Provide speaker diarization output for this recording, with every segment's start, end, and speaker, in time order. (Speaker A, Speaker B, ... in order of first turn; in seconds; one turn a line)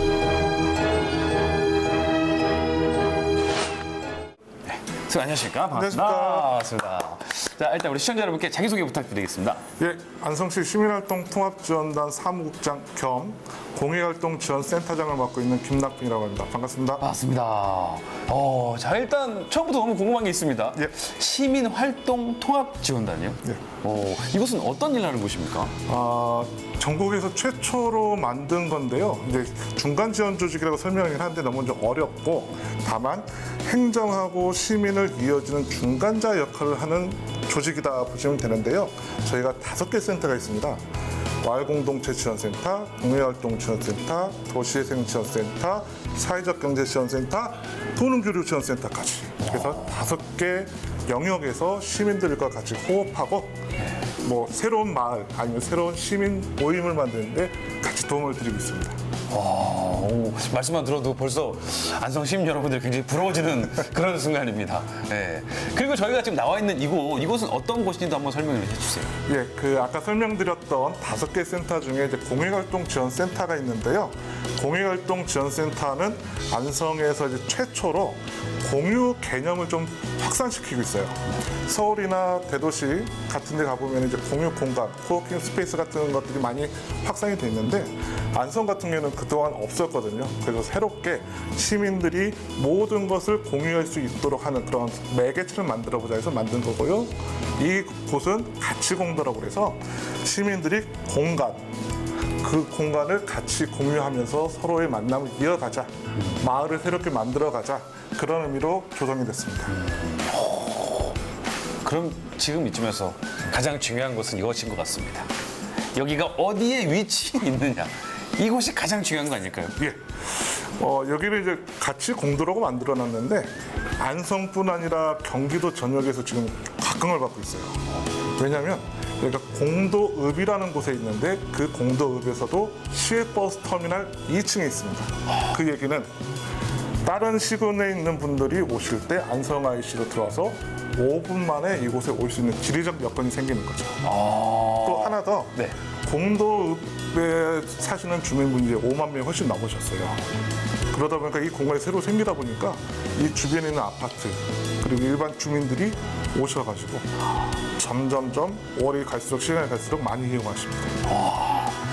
Speaker A: 4.7-9.6
Speaker B: 5.7-6.5
Speaker B: 9.8-17.1
Speaker A: 17.0-25.7
Speaker B: 25.9-40.8
Speaker B: 41.4-53.5
Speaker A: 49.5-49.7
Speaker B: 54.2-59.0
Speaker A: 59.3-69.1
Speaker B: 69.3-101.7
Speaker B: 102.4-109.8
Speaker A: 109.7-111.2
Speaker A: 111.8-115.3
Speaker A: 115.9-119.8
Speaker B: 119.8-127.8
Speaker B: 128.3-136.1
Speaker B: 137.0-144.0
Speaker A: 144.0-145.7
Speaker B: 144.8-150.2
Speaker B: 150.9-157.1
Speaker B: 157.8-161.0
Speaker A: 161.1-161.8